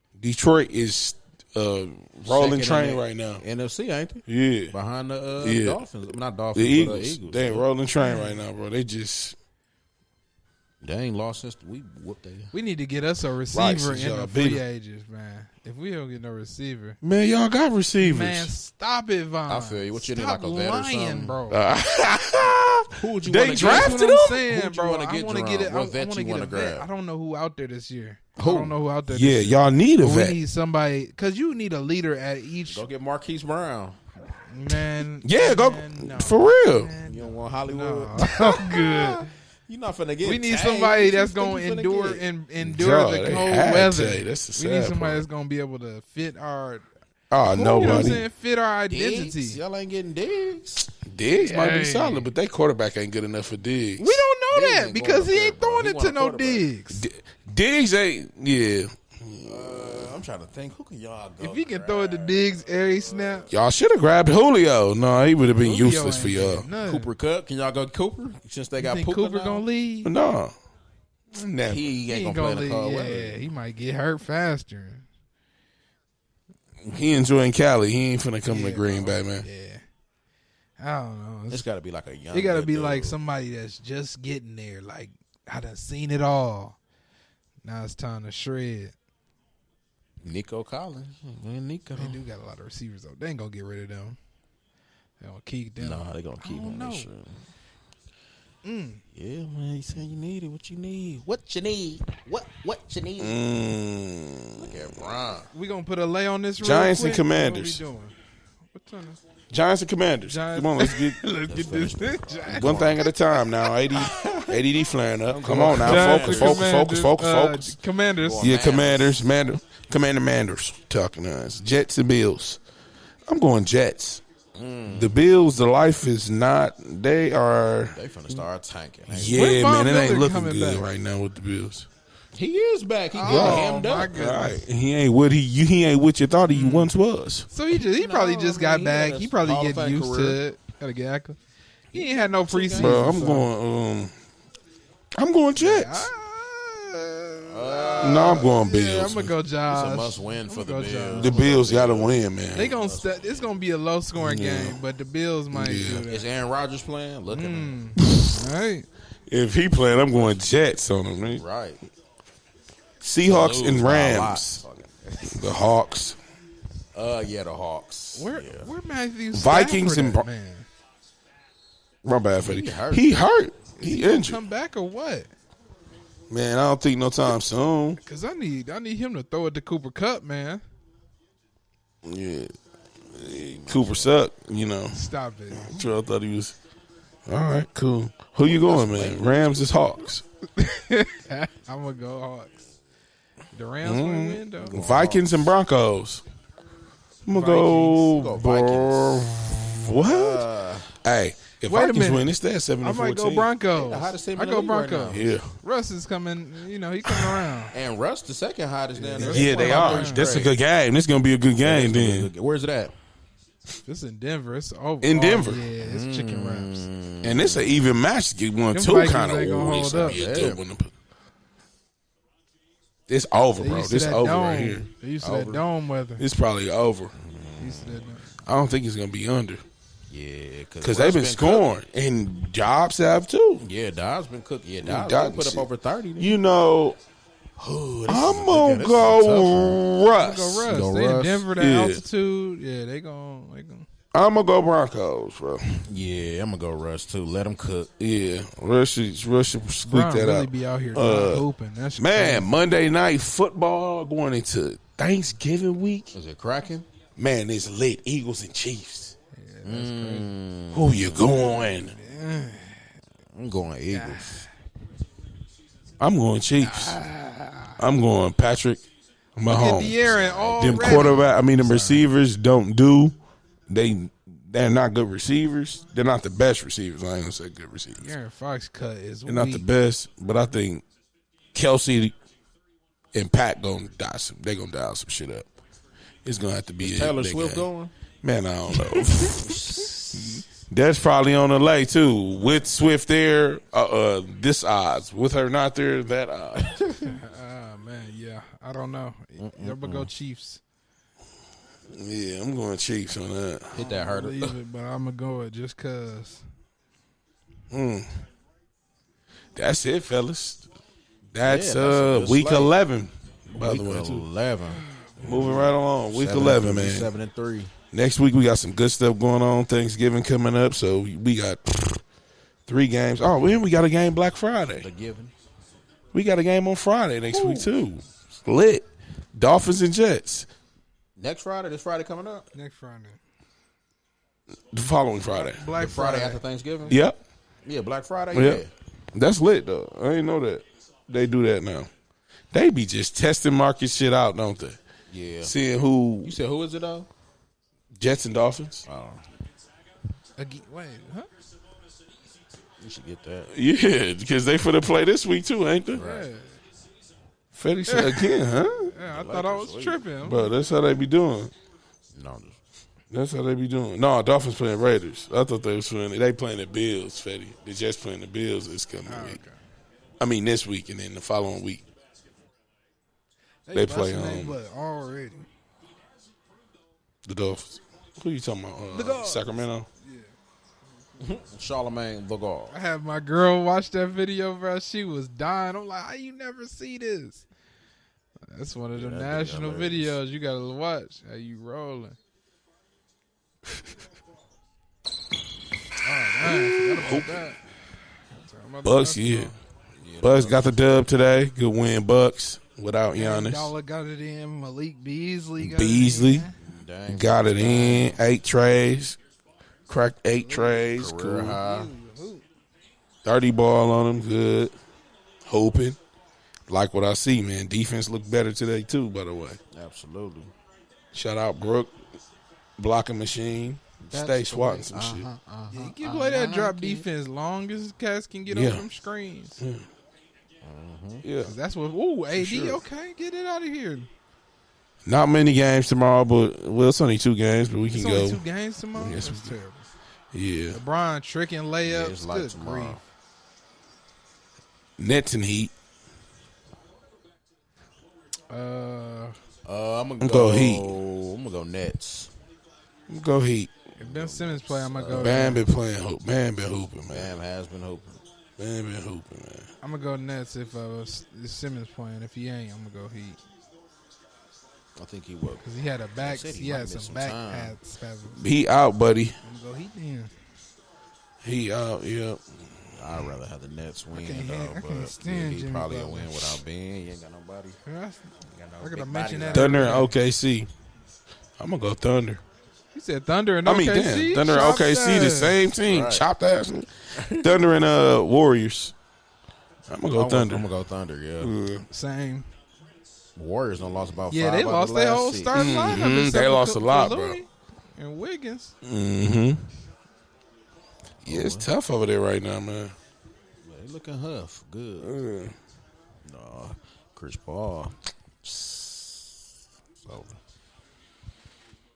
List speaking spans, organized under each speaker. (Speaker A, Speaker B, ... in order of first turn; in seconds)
Speaker A: 0.2-3.4, 4.3-4.7, 5.4-5.8, 6.5-9.3, 13.5-14.6, 17.0-18.5, 21.5-24.4, 29.1-30.4, 35.2-36.9, 42.6-45.2, 47.3-48.2, 51.0-54.2, 56.9-60.1, 63.5-66.7, 70.0-70.5, 71.3-71.9, 76.8-79.5, 103.2-104.9, 106.6-107.8, 109.5-111.2, 112.5-117.7, 118.4-122.6, 123.3-124.2, 124.9-128.0, 129.1-131.9, 133.2-137.5, 142.8-144.1, 145.1-146.1, 148.0-149.3, 151.2-152.7, 154.2-154.8, 155.5-156.1, 158.0-158.4, 159.3-161.4, 163.0-164.6, 165.2-166.2, 169.3-170.2, 172.0-174.4, 176.3-178.0, 182.0-182.5, 183.1-186.6, 187.3-190.2, 193.8-196.2, 197.2-200.4, 200.9-203.5, 205.1-205.5, 207.1-207.4, 209.2-212.3, 215.0-215.6, 217.2-220.9, 223.1-224.9, 226.2-227.1, 228.4-229.6, 230.8-233.6, 234.8-235.7, 236.2-237.0, 238.1-240.6, 241.5-242.0, 244.1-245.8, 248.0-251.4, 252.0-256.1, 257.2-259.1, 260.7-261.9, 266.0-267.0, 267.8-268.8, 269.4-273.1, 273.7-278.1, 279.3-280.8, 281.5-282.1, 283.1-285.5, 286.2-287.7, 288.2-296.8, 301.9-303.7, 307.7-308.1, 309.5-310.7, 311.3-314.2, 315.2-317.1, 317.9-322.0, 322.7-324.9, 326.1-330.5, 334.7-335.6, 336.9-337.2, 338.3-341.9, 342.5-344.8, 345.4-346.4, 347.9-348.8, 353.5-356.1, 357.5-358.9, 360.2-361.5, 363.1-369.4, 370.2-371.8, 373.7-374.6, 377.2-379.9, 396.4-397.4, 398.8-399.5, 400.2-403.7, 405.6-406.5, 407.1-409.2, 409.9-411.6, 413.2-414.7, 415.4-416.0, 416.7-419.6, 421.1-421.9, 422.8-425.2, 428.5-428.8, 429.6-429.9, 431.2-431.5, 435.1-438.4, 438.9-439.5, 440.3-440.8, 445.0-445.7, 450.2-450.9, 453.1-453.7, 455.1-457.3, 458.6-459.7, 468.4-469.4, 471.4-472.7, 479.5-480.7, 481.6-482.4, 483.6-488.9, 489.9-490.6, 491.4-491.9, 495.5-497.4, 498.8-499.7, 501.2-502.9, 505.0-505.5
Speaker B: 2.2-7.7, 10.8-12.5, 19.5-21.4, 22.9-26.9, 28.4-28.7, 32.6-34.0, 37.0-42.2, 48.9-50.9, 54.5-56.7, 59.4-63.5, 66.8-69.6, 71.6-73.4, 81.5-83.2, 90.2-92.2, 95.8-97.4, 99.1-103.4, 104.6-105.5, 111.4-113.0, 114.0-114.6, 115.3-116.7, 118.2-119.2, 124.5-125.2, 127.9-129.5, 132.3-134.1, 137.9-140.4, 141.9-143.2, 147.4-148.5, 149.7-153.5, 156.1-157.8, 161.3-161.8, 163.2-165.4, 166.9-168.7, 172.4-173.1, 183.4-184.1, 188.4-189.4, 194.6-195.2, 198.0-199.3, 199.9-200.9, 203.7-205.4, 207.7-210.5, 211.6-212.9, 215.8-217.8, 219.8-220.6, 225.2-225.6, 227.1-228.1, 230.1-231.7, 233.6-236.4, 237.6-239.9, 240.6-241.4, 245.9-247.9, 256.1-256.9, 259.6-261.2, 263.3-264.4, 270.0-271.3, 286.8-287.9, 288.8-290.4, 296.7-297.1, 299.4-300.1, 303.7-304.6, 311.4-312.7, 313.5-317.7, 324.8-325.3, 327.3-327.7, 331.2-332.5, 335.8-337.0, 337.6-338.7, 345.1-345.5, 346.2-347.1, 348.9-349.2, 352.8-353.5, 355.9-356.3, 359.1-360.0, 362.1-362.6, 381.2-382.7, 388.9-390.1, 400.0-401.0, 406.6-408.2, 410.9-411.9, 419.7-420.5, 424.0-427.0, 430.6-431.2, 432.3-432.8, 441.8-443.0, 449.6-452.3, 454.0-455.5, 457.1-458.2, 465.0-465.6, 466.2-467.8, 472.9-477.8, 478.5-480.1, 485.9-486.2, 487.1-487.7, 490.1-491.5, 493.4-495.6, 501.2-501.7, 503.6-505.2, 506.2-509.4, 510.0-510.4
Speaker C: 8.0-8.4, 12.5-17.0, 18.0-21.6, 23.5-32.8, 34.5-39.3, 40.2-46.9, 47.5-49.6, 51.3-52.3, 54.0-57.0, 61.4-63.5, 65.6-67.1, 68.8-70.1, 72.1-75.0, 78.5-79.8, 80.8-81.7, 82.3-86.8, 87.6-88.9, 92.0-94.2, 95.2-97.1, 98.6-99.0, 105.5-108.2, 108.7-109.2, 110.2-113.1, 115.7-118.6, 129.3-130.9, 133.1-134.6, 136.5-136.9, 137.5-141.4, 141.9-143.5, 145.6-151.5, 152.5-156.3, 157.3-158.9, 168.2-170.7, 173.8-175.3, 178.0-180.6, 184.9-185.7, 190.6-192.7, 193.5-194.8, 197.3-198.1, 201.7-207.7, 209.0-210.3, 213.8-216.8, 218.7-220.2, 223.6-226.2, 227.6-228.3, 240.1-243.8, 249.9-252.5, 259.3-260.3, 261.1-262.9, 263.9-264.5, 266.6-267.8, 269.5-272.1, 278.0-279.7, 297.0-300.6, 303.8-306.4, 332.5-333.2, 335.3-336.4, 350.4-351.3, 356.0-356.6, 357.9-360.5, 369.1-369.5, 373.6-375.5, 378.9-380.3, 382.7-387.4, 388.5-392.2, 396.0-397.7, 398.3-399.5, 403.1-406.5, 410.4-410.9, 411.4-412.4, 425.7-429.6, 431.4-434.1, 437.9-439.9, 440.7-443.0, 448.5-449.4, 454.0-455.6, 459.8-463.4, 465.6-468.4, 469.4-470.3, 474.1-476.6, 477.9-480.1, 482.9-485.6, 491.9-492.5, 494.3-498.8